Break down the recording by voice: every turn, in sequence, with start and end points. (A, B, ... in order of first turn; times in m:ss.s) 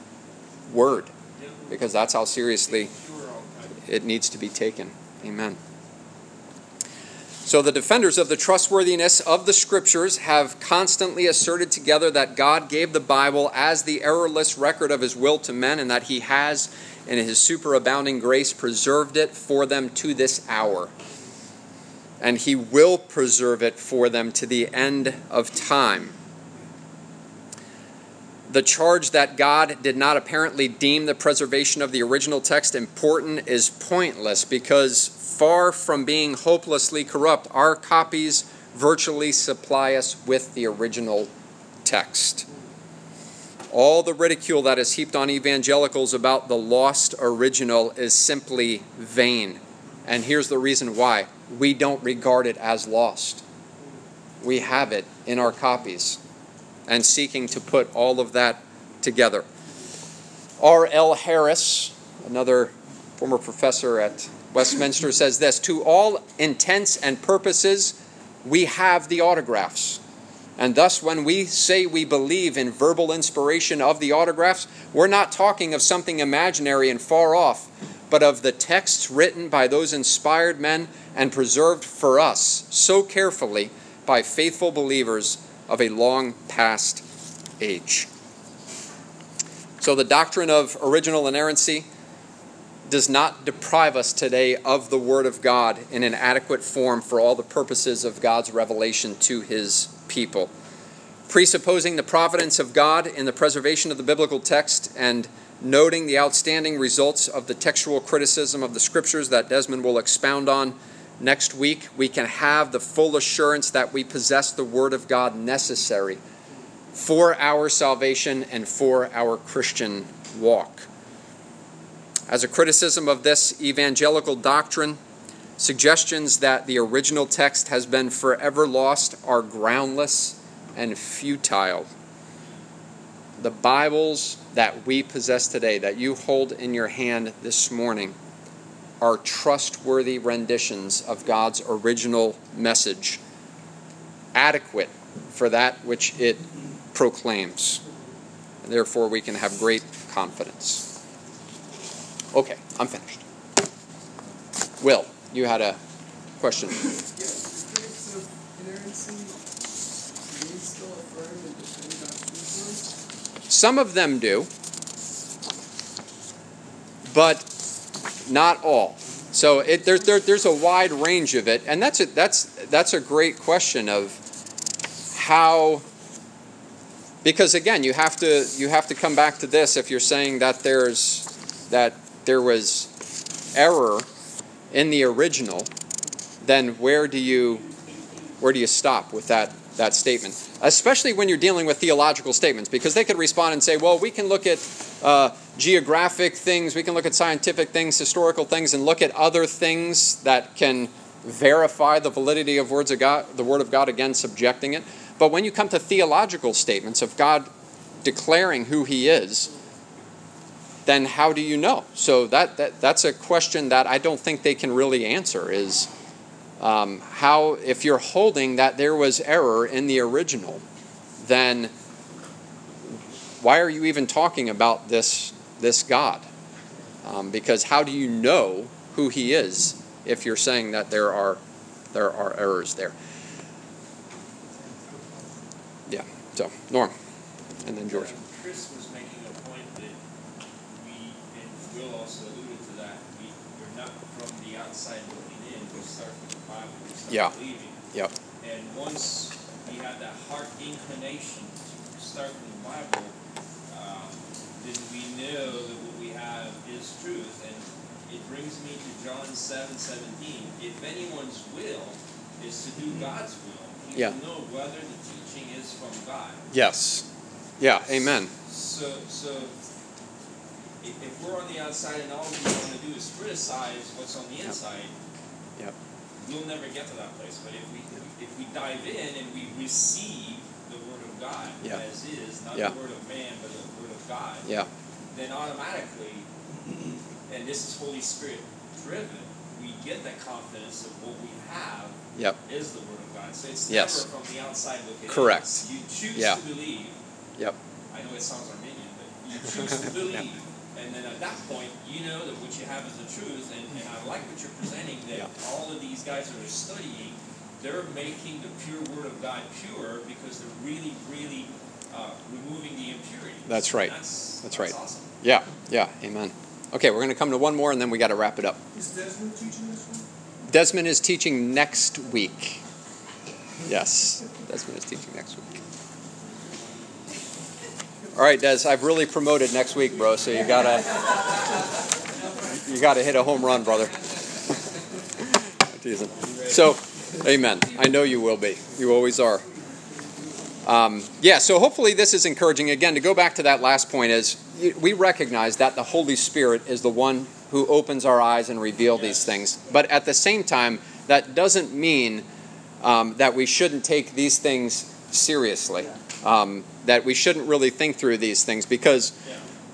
0:00.7-0:01.1 A
0:01.4-0:01.7 B
0:01.7-0:02.9 A
0:02.6-0:03.9 B
0:03.9-0:05.6 A
0:07.4-0:20.9 A
0:22.2-0:26.2 A
0:28.5-0:41.3 A
0:41.8-0:42.5 A
0:43.7-0:53.4 A
0:54.4-0:56.2 A
0:56.9-0:59.5 A
1:00.6-1:10.0 A
1:10.6-1:27.0 A
1:27.6-1:28.1 A
1:29.8-1:31.9 A
1:32.9-1:40.5 A
1:41.3-1:56.2 A
1:56.9-2:00.9 A
2:02.3-2:05.0 A
2:05.6-2:11.9 A
2:13.4-2:18.2 A
2:19.0-2:23.2 A
2:24.3-2:27.8 A
2:28.6-2:30.8 A
2:32.3-2:33.2 A
2:34.8-2:35.8 A
2:36.4-2:36.9 A
2:37.2-2:39.5 C
2:40.2-2:42.9 C
2:43.5-2:44.5 A
2:47.1-2:47.5 A
2:48.2-2:54.2 A
2:55.1-2:55.8 A
2:57.2-3:02.9 A
3:03.5-3:04.1 A
3:04.7-3:05.7 A
3:06.4-3:07.7 A
3:08.4-3:27.5 A
3:28.0-3:29.5 A
3:30.9-3:35.9 A
3:36.6-3:40.6 A
3:41.2-3:41.7 A
3:43.4-3:46.3 A
3:47.0-3:51.4 A
3:51.9-3:52.9 A
3:54.7-3:55.2 C
3:55.9-3:56.9 A
3:57.6-3:58.1 A
3:57.9-4:00.0 B
4:00.7-4:07.8 B
4:08.4-4:13.2 B
4:13.7-4:26.5 B
4:26.5-4:27.0 A
4:27.6-4:28.3 A
4:27.8-4:29.6 B
4:30.8-4:34.9 B
4:36.2-4:44.5 B
4:45.1-4:46.3 B
4:47.3-4:57.0 B
4:53.7-4:54.0 A
4:55.1-4:55.6 A
4:56.2-4:56.4 A
4:57.9-5:15.1 B
5:13.5-5:18.6 A
5:18.7-5:20.1 C
5:20.5-5:22.6 A
5:23.7-5:25.6 A
5:28.2-5:31.2 A
5:32.5-5:34.0 A
5:35.6-5:39.4 A
5:40.6-5:52.3 A
5:52.8-5:59.2 A